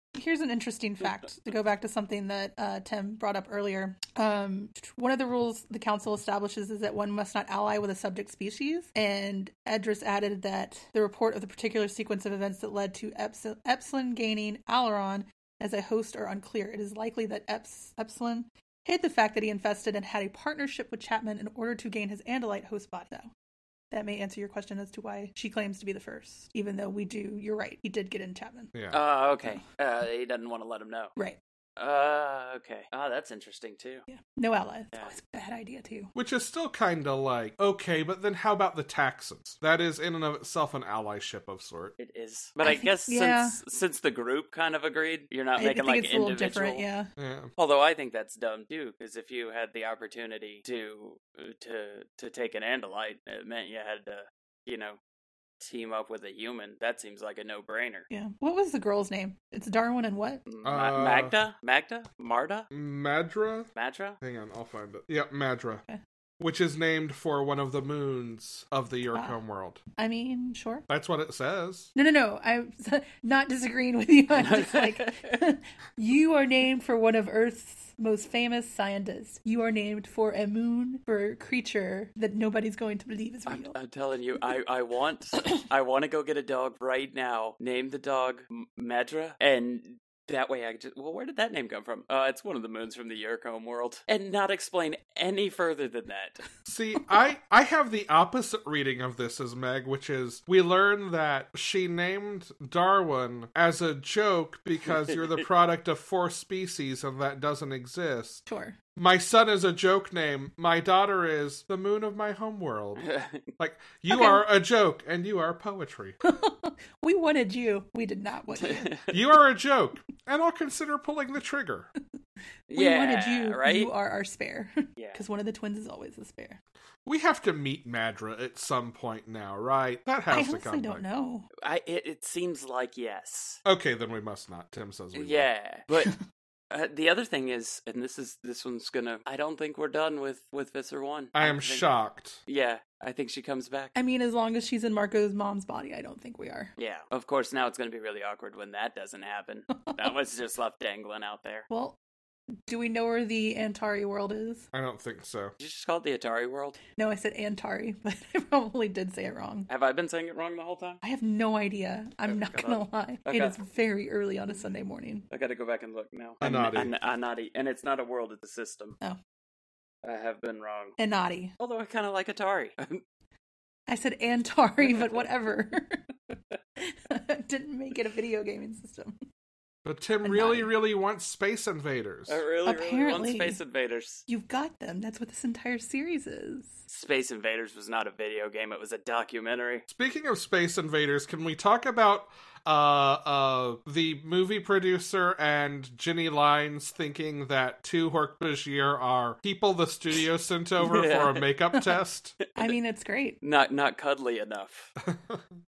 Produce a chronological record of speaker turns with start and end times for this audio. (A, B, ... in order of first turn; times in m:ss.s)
0:00.2-0:23.3 A
0:23.9-0:28.7 A
0:28.7-0:29.0 B
0:28.9-0:31.1 C
0:31.8-0:34.1 C
0:34.1-0:36.1 A
0:36.2-0:42.0 B
0:42.0-0:46.8 C
0:42.6-0:43.6 A
0:45.6-0:47.1 A
0:47.2-0:47.5 B
0:47.6-0:55.0 C
0:55.6-0:58.1 C
0:58.1-1:00.4 A
1:00.5-1:02.7 C
1:00.6-1:01.3 B
1:02.7-1:03.7 B
1:03.8-1:04.2 C
1:04.2-1:05.8 B
1:06.4-1:09.8 B
1:10.0-1:10.9 A
1:10.9-1:11.9 B
1:12.0-1:23.8 A
1:14.3-1:15.4 C
1:23.5-1:36.4 C
1:36.6-1:48.4 B
1:44.9-1:45.4 C
1:48.5-1:48.8 A
1:49.0-1:53.0 B
1:53.0-1:53.4 C
1:53.6-1:56.2 B
1:54.1-1:54.4 A
1:56.2-1:58.9 A
1:58.6-1:59.1 C
1:59.1-2:01.9 B
2:02.7-2:03.9 C
2:02.7-2:06.6 A
2:05.0-2:05.2 C
2:07.0-2:11.0 B
2:10.3-2:11.5 A
2:11.6-2:13.6 C
2:13.6-2:15.5 B
2:15.1-2:16.2 C
2:16.7-2:21.9 C
2:21.4-2:22.4 B
2:22.5-2:23.9 C
2:24.0-2:26.7 A
2:26.8-2:31.7 C
2:31.7-2:32.0 A
2:32.7-2:34.7 A
2:34.7-2:35.5 B
2:35.6-2:36.8 C
2:37.0-2:39.7 A
2:39.7-2:41.0 C
2:41.0-2:45.3 A
2:42.3-2:43.6 C
2:45.3-2:49.0 C
2:46.4-2:46.9 B
2:50.0-2:51.0 C
2:51.0-2:51.5 A
2:51.6-2:53.0 C
2:53.9-2:56.0 A
2:54.8-2:55.2 C
2:56.8-2:59.1 A
2:59.8-3:02.4 B
3:00.2-3:00.7 A
3:02.3-3:04.2 C
3:02.6-3:03.6 A
3:04.3-3:06.8 A
3:06.9-3:09.8 C
3:09.9-3:22.4 B
3:20.8-3:21.4 C
3:22.5-3:22.8 C
3:22.6-3:23.4 A
3:23.4-3:24.9 C
3:25.0-3:25.4 B